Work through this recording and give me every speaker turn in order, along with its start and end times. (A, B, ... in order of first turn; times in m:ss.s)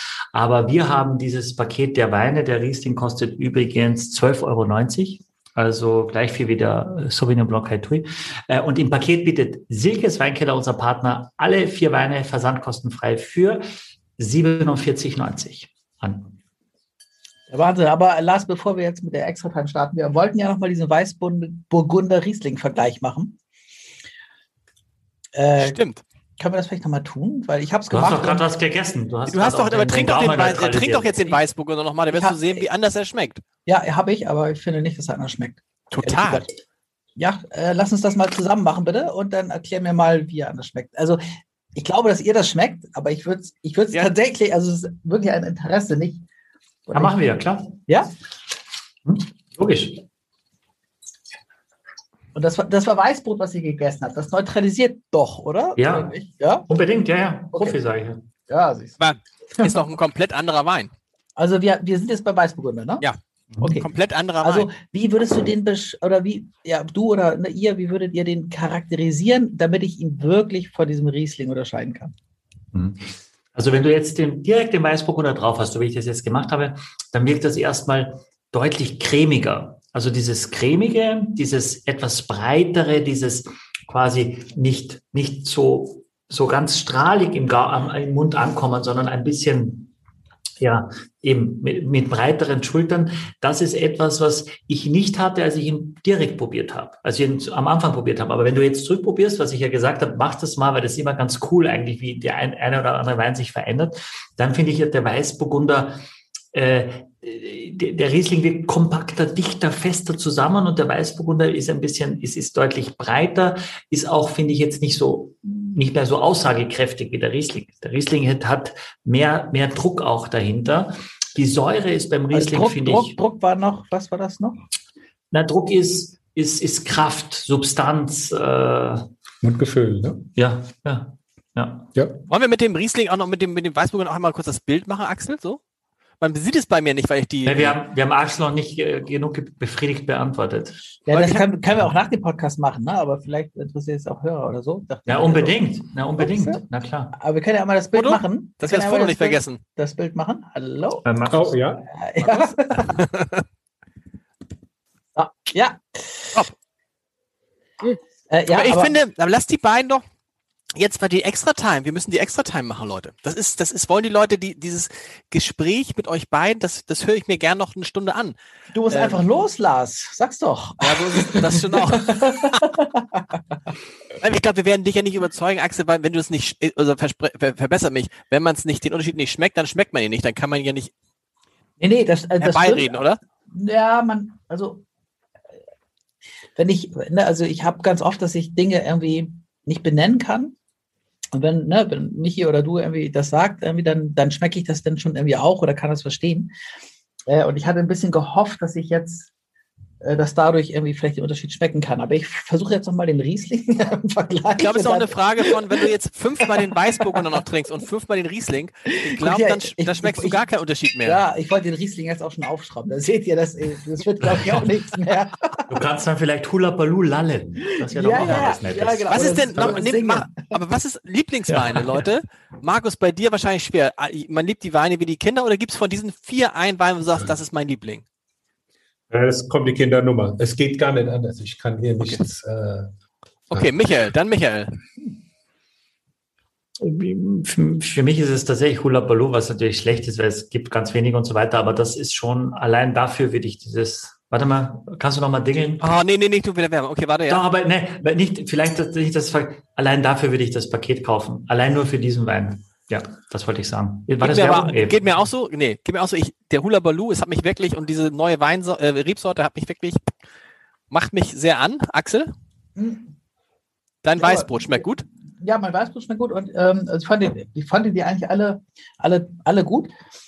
0:00.3-0:13.6 A
0:14.2-0:16.4 A
0:17.5-0:23.4 B
0:25.4-0:25.8 B
0:25.6-0:26.0 C
0:26.4-0:28.4 B
0:27.9-0:31.4 A
0:29.3-0:33.4 C
0:32.1-0:32.6 B
0:33.7-0:36.5 B
0:35.9-0:36.5 C
0:37.2-0:41.2 B
0:41.8-0:46.2 B
0:46.9-0:47.2 B
0:46.9-0:47.8 A
0:49.1-0:50.0 A
0:52.4-0:56.7 B
0:55.8-0:56.1 A
0:56.7-0:58.2 A
0:58.5-0:59.0 B
0:59.0-1:00.9 C
0:59.6-0:59.8 B
1:01.4-1:03.0 B
1:03.6-1:03.9 B
1:03.8-1:04.7 C
1:04.4-1:12.1 B
1:12.7-1:29.9 A
1:30.6-1:46.0 A
1:46.5-2:03.2 A
2:02.3-2:04.6 B
2:05.3-2:09.1 A
2:09.4-2:10.3 D
2:10.4-2:11.9 A
2:12.0-2:12.2 D
2:12.3-2:15.6 C
2:16.2-2:17.8 C
2:17.4-2:20.8 A
2:21.1-2:25.6 B
2:21.1-2:21.4 C
2:25.1-2:27.1 A
2:26.2-2:26.6 B
2:27.2-2:31.0 B
2:27.9-2:29.6 C
2:31.0-2:31.6 A
2:31.3-2:31.8 D
2:32.0-2:33.0 B
2:32.2-2:33.4 C
2:35.2-2:36.4 B
2:38.3-2:39.0 B
2:38.5-2:40.0 C
2:40.8-2:48.4 C
2:48.7-2:53.3 B
2:48.9-2:49.2 C
2:50.8-2:52.7 C
2:54.2-3:00.9 C
3:01.8-3:04.8 B
3:02.4-3:03.2 C
3:06.6-3:10.6 B
3:11.3-3:16.5 B
3:17.3-3:19.3 B
3:20.0-3:25.6 B
3:24.6-3:31.2 C
3:26.9-3:27.3 B
3:29.0-3:30.4 B
3:31.0-3:35.7 B
3:34.3-3:34.6 A
3:35.7-3:39.3 A
3:37.8-3:40.5 B
3:38.2-3:48.0 C
3:41.5-3:42.0 A
3:49.1-3:52.9 D
3:53.5-3:54.8 C
3:56.8-4:05.9 A
4:05.8-4:07.4 C
4:07.3-4:15.0 A
4:14.2-4:20.1 C
4:20.9-4:22.3 C
4:22.8-4:23.1 B
4:24.0-4:25.0 C
4:24.2-4:24.9 B
4:25.4-4:29.9 B